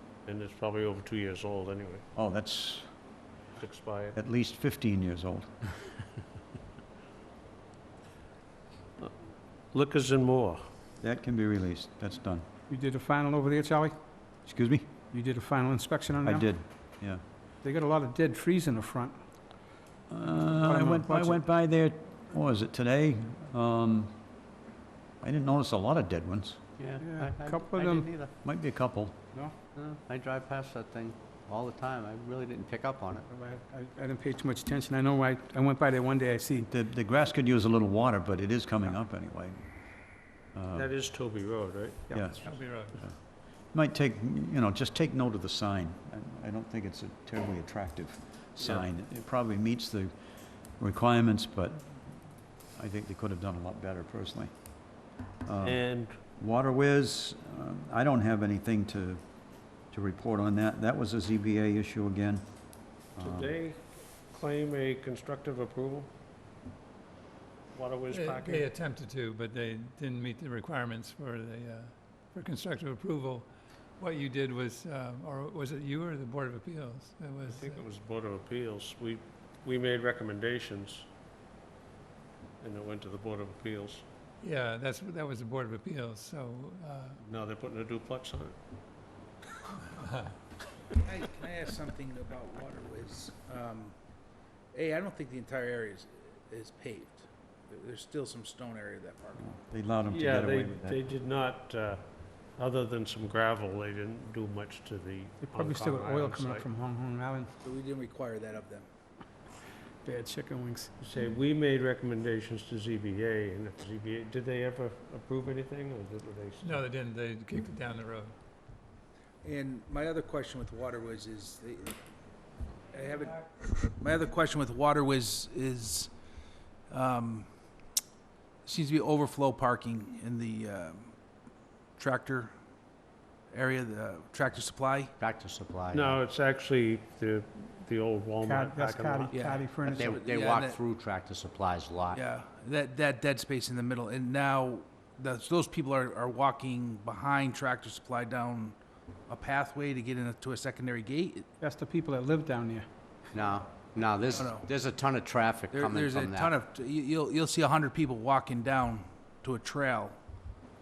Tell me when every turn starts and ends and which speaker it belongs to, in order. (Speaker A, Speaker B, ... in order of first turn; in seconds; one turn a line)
Speaker A: 0.3-2.0
Speaker B: 2.1-2.9
Speaker A: 3.6-4.2
Speaker B: 4.1-5.5
Speaker A: 9.7-10.6
Speaker B: 11.0-12.5
Speaker C: 12.7-13.9
Speaker B: 14.5-14.9
Speaker C: 15.1-16.5
Speaker B: 16.2-17.2
Speaker C: 17.6-19.2
Speaker B: 20.1-24.2
Speaker C: 20.2-21.4
Speaker B: 25.2-26.6
Speaker D: 26.8-28.3
Speaker C: 27.0-28.1
Speaker B: 28.4-29.2
Speaker D: 29.8-33.3
Speaker C: 33.3-36.7
Speaker B: 36.6-39.6
Speaker B: 40.5-40.9
Speaker A: 40.7-42.6
Speaker B: 42.1-43.2
Speaker E: 42.4-43.0
Speaker B: 43.7-50.1
Speaker A: 48.6-48.9
Speaker B: 50.8-52.0
Speaker B: 52.8-54.5
Speaker B: 55.5-55.8
Speaker A: 55.6-56.2
Speaker B: 56.4-59.2
Speaker B: 59.9-62.5
Speaker B: 63.1-63.5
Speaker A: 63.2-66.1
Speaker A: 67.7-68.7
Speaker E: 68.1-77.8
Speaker A: 77.5-81.1
Speaker A: 82.6-84.0
Speaker E: 84.4-87.2
Speaker A: 87.2-88.6
Speaker E: 89.9-90.3
Speaker F: 91.0-94.0
Speaker F: 94.7-99.4
Speaker B: 99.4-101.0
Speaker A: 100.1-106.7
Speaker C: 105.4-107.5
Speaker F: 107.6-108.9
Speaker C: 110.0-111.0
Speaker A: 111.0-116.8
Speaker E: 116.6-118.3
Speaker F: 119.4-122.0
Speaker F: 122.9-126.1
Speaker F: 126.9-127.5
Speaker F: 128.7-131.1
Speaker F: 132.0-132.6
Speaker F: 133.5-135.1
Speaker D: 135.2-136.2
Speaker A: 135.9-139.5
Speaker C: 138.4-140.2
Speaker F: 139.3-140.8
Speaker D: 139.8-142.2
Speaker F: 142.1-148.8
Speaker F: 149.3-151.5
Speaker C: 151.6-152.9
Speaker D: 153.3-156.6
Speaker F: 154.3-154.7
Speaker F: 155.7-160.2